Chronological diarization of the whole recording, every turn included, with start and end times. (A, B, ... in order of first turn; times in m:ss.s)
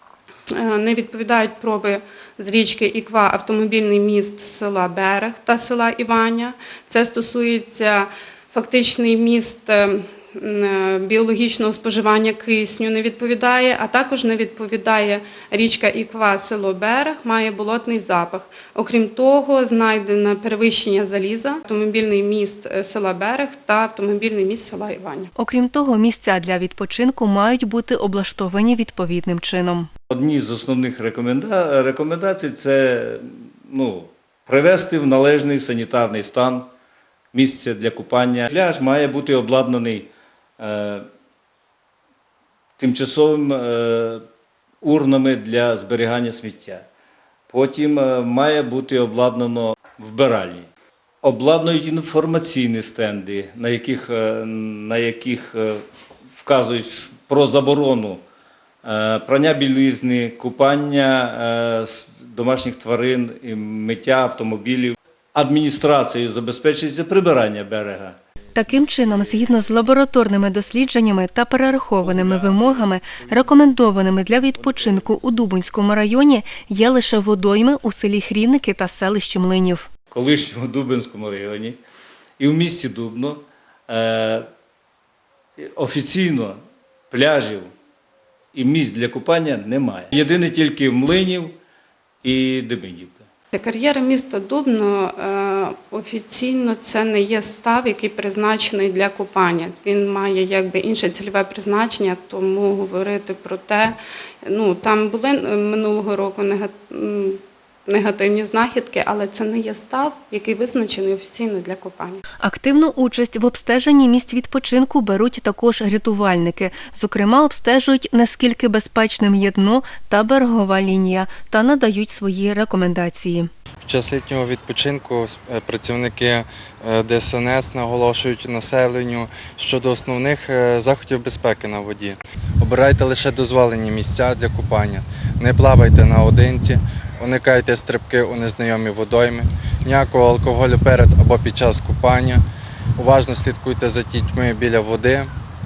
0:00.5-0:25.3 A
0:25.4-0:29.9 B
0:30.1-0:36.7 C
0:37.3-0:41.0 C
0:42.8-0:44.2 C
0:44.8-0:46.8 C
0:47.5-0:50.7 C
0:51.2-0:55.8 C
0:56.4-0:58.2 C
0:58.8-1:08.2 C
1:08.5-1:19.9 B
1:12.0-1:13.4 C
1:14.7-1:15.1 C
1:20.1-1:21.8 C
1:22.4-1:24.4 C
1:25.6-1:26.6 C
1:27.1-1:27.7 C
1:28.5-1:31.6 C
1:32.2-1:33.2 C
1:33.5-1:52.2 A
1:52.4-2:03.5 B
2:03.8-2:22.4 D
2:23.0-2:25.3 D